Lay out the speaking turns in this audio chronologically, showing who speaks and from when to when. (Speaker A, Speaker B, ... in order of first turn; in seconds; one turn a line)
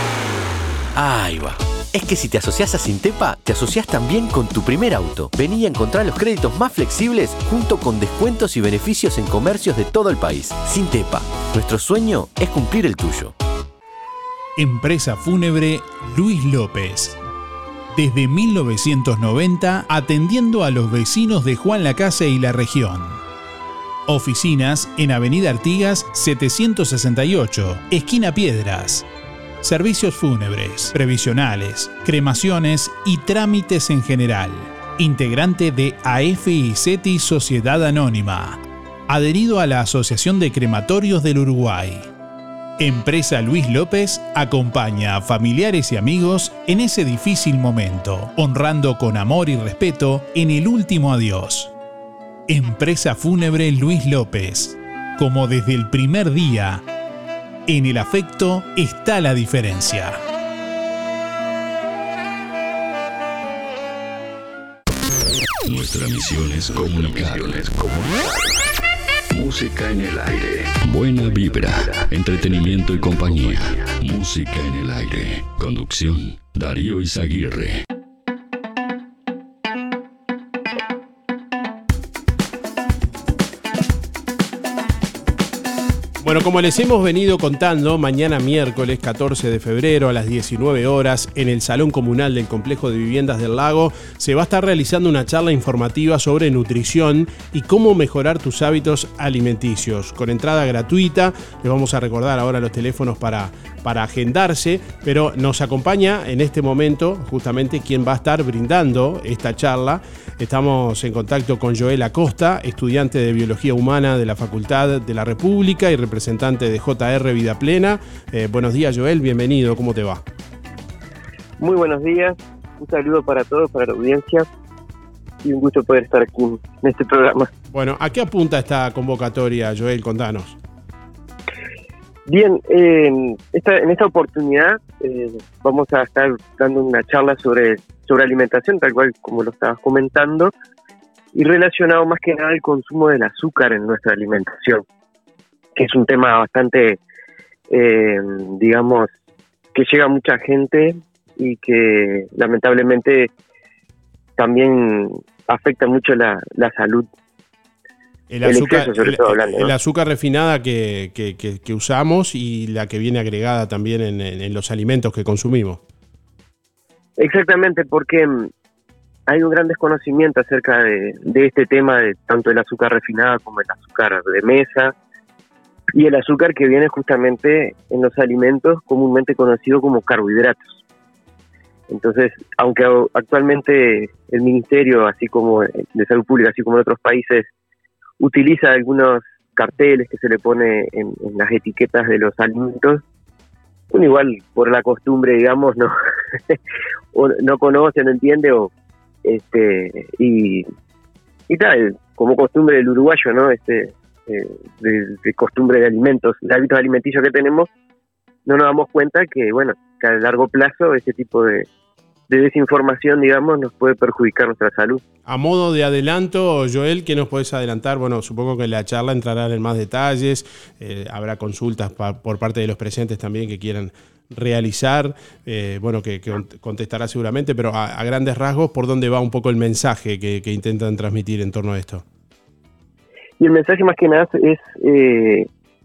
Speaker A: 1.0-13.3
Speaker B: 14.6-17.2
Speaker B: 17.9-23.2
Speaker B: 24.1-29.1
Speaker B: 29.6-42.1
Speaker B: 42.8-51.7
Speaker B: 52.5-56.8
Speaker B: 57.7-60.2
Speaker C: 65.7-68.3
Speaker C: 69.3-77.8
Speaker D: 86.2-120.2
Speaker E: 121.6-124.5
Speaker E: 125.4-127.5
Speaker D: 127.7-130.6
Speaker E: 132.3-140.5
Speaker E: 141.3-144.8
Speaker E: 145.8-147.0
Speaker E: 147.7-149.1
Speaker E: 149.7-153.3
Speaker E: 154.4-157.1
Speaker D: 158.3-165.8
Speaker E: 158.4-159.7
Speaker E: 167.2-168.5
Speaker E: 169.3-174.9
Speaker E: 175.9-180.8
Speaker E: 181.9-187.5
Speaker E: 188.2-193.0
Speaker E: 193.9-195.9
Speaker E: 197.1-198.7
Speaker E: 199.2-200.7
Speaker E: 201.5-207.7
Speaker E: 208.5-211.7
Speaker E: 212.3-215.0
Speaker D: 215.3-232.0
Speaker E: 233.4-235.5